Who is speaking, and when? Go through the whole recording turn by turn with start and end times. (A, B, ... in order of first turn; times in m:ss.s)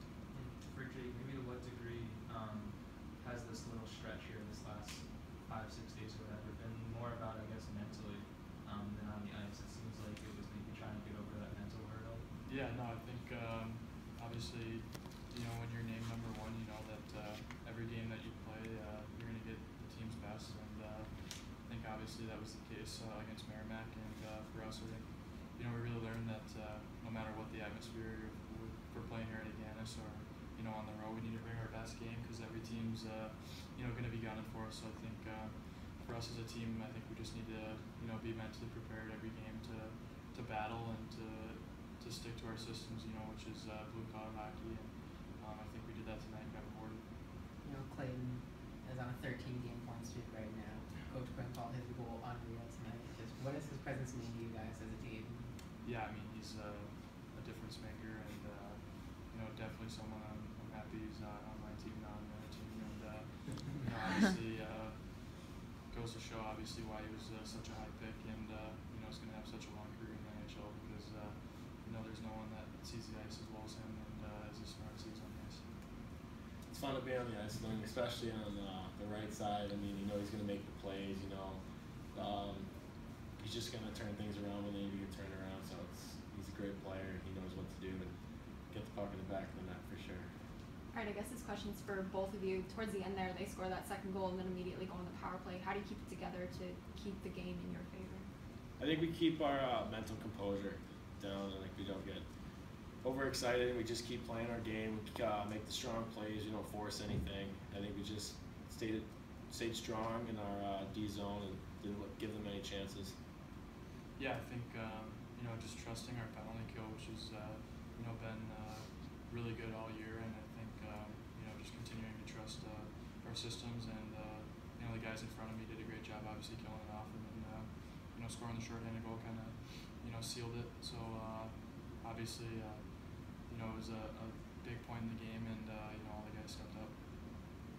0:00.3-0:12.3 A
0:12.4-0:47.1 B
0:47.6-0:55.5 C
0:55.8-1:15.6 B
1:16.7-1:21.6 D
1:22.1-1:22.7 D
1:23.3-1:28.1 D
1:28.7-1:30.3 D
1:30.9-1:38.2 E
1:38.8-1:42.2 D
1:43.0-1:53.1 D
1:54.2-2:17.0 B